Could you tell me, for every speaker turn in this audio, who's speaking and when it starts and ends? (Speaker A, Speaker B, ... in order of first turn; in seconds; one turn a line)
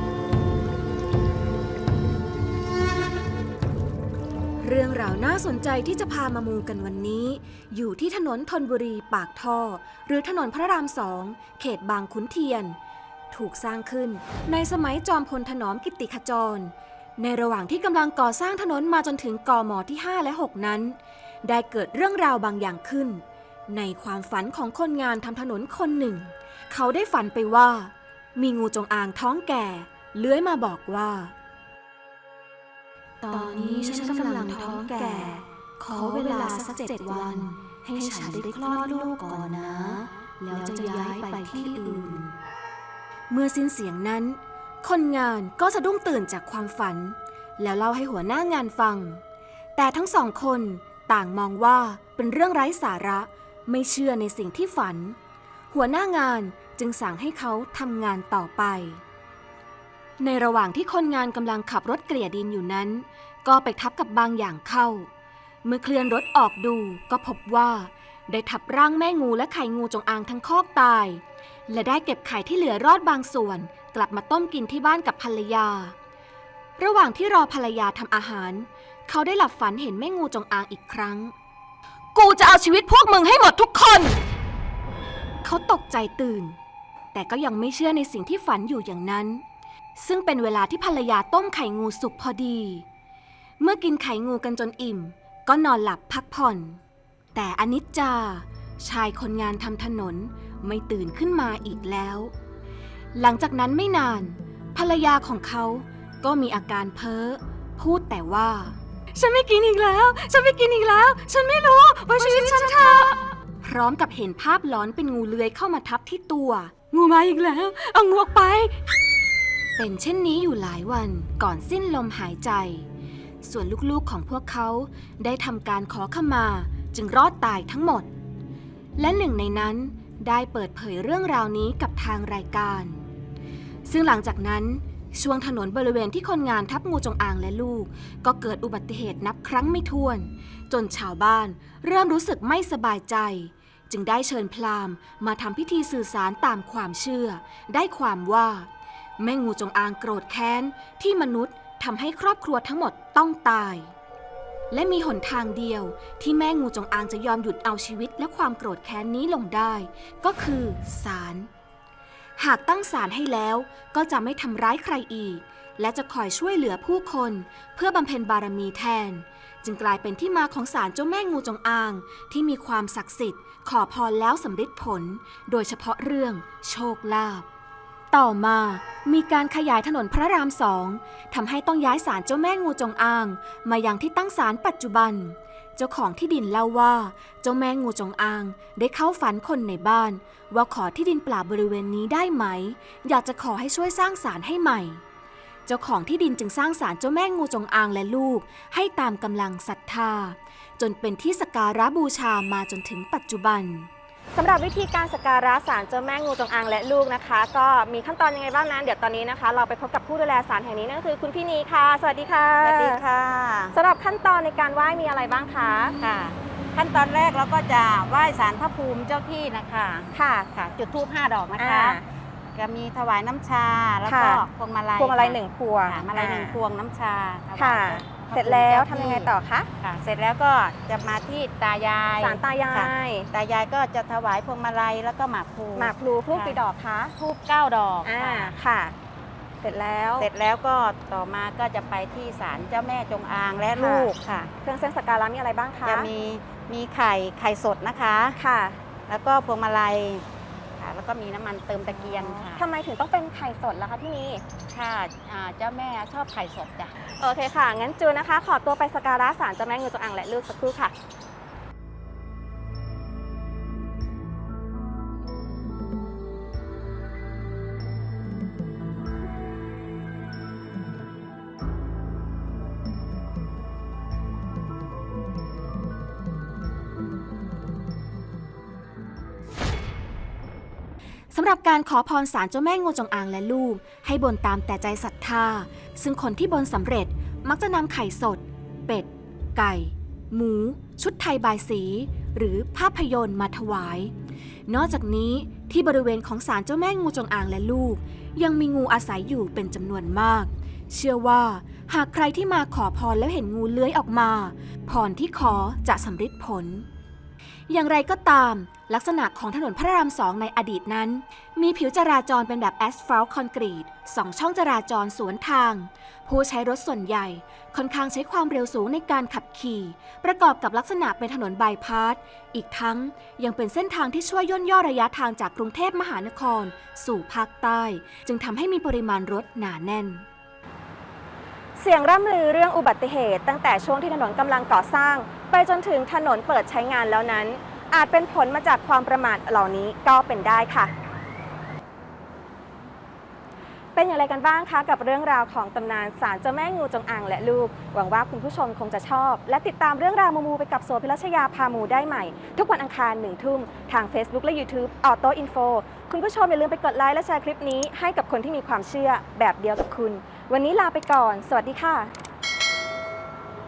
Speaker A: 4.6-12.8
Speaker A: 13.3-31.3
Speaker A: 33.2-42.4
Speaker A: 43.3-49.2
Speaker A: 49.8-55.2
Speaker A: 55.7-59.0
Speaker A: 60.2-65.1
Speaker A: 65.6-75.9
Speaker A: 76.8-81.3
Speaker A: 82.2-84.2
Speaker A: 85.4-86.6
Speaker A: 87.1-89.4
Speaker A: 90.0-92.8
Speaker A: 93.6-96.8
Speaker A: 97.3-102.3
Speaker A: 103.2-118.8
Speaker A: 119.8-122.9
Speaker A: 123.4-128.1
Speaker A: 129.0-133.0
Speaker A: 133.8-148.7
Speaker A: 149.2-153.9
Speaker A: 154.7-161.5
Speaker A: 162.4-177.5
Speaker A: 178.1-195.0
Speaker A: 195.7-203.9
Speaker B: 204.3-213.0
Speaker C: 212.6-213.8
Speaker B: 213.7-216.0
Speaker C: 216.0-222.0
Speaker B: 220.1-220.5
Speaker B: 221.6-222.0
Speaker C: 222.5-236.6
Speaker B: 224.1-224.4
Speaker B: 225.0-226.6
Speaker B: 227.6-229.7
Speaker B: 232.2-233.3
Speaker B: 235.8-237.2
Speaker C: 237.2-238.5
Speaker B: 238.0-239.0
Speaker B: 239.6-240.3
Speaker C: 240.2-244.5
Speaker B: 243.8-244.1
Speaker B: 244.6-246.1
Speaker C: 245.8-248.4
Speaker B: 248.4-248.8
Speaker C: 249.1-250.2
Speaker C: 250.8-252.6
Speaker B: 251.9-254.4
Speaker C: 254.7-256.9
Speaker B: 257.2-260.9
Speaker A: 281.3-294.1
Speaker A: 294.7-306.9
Speaker A: 307.7-330.2
Speaker B: 331.8-340.9
Speaker B: 343.9-362.1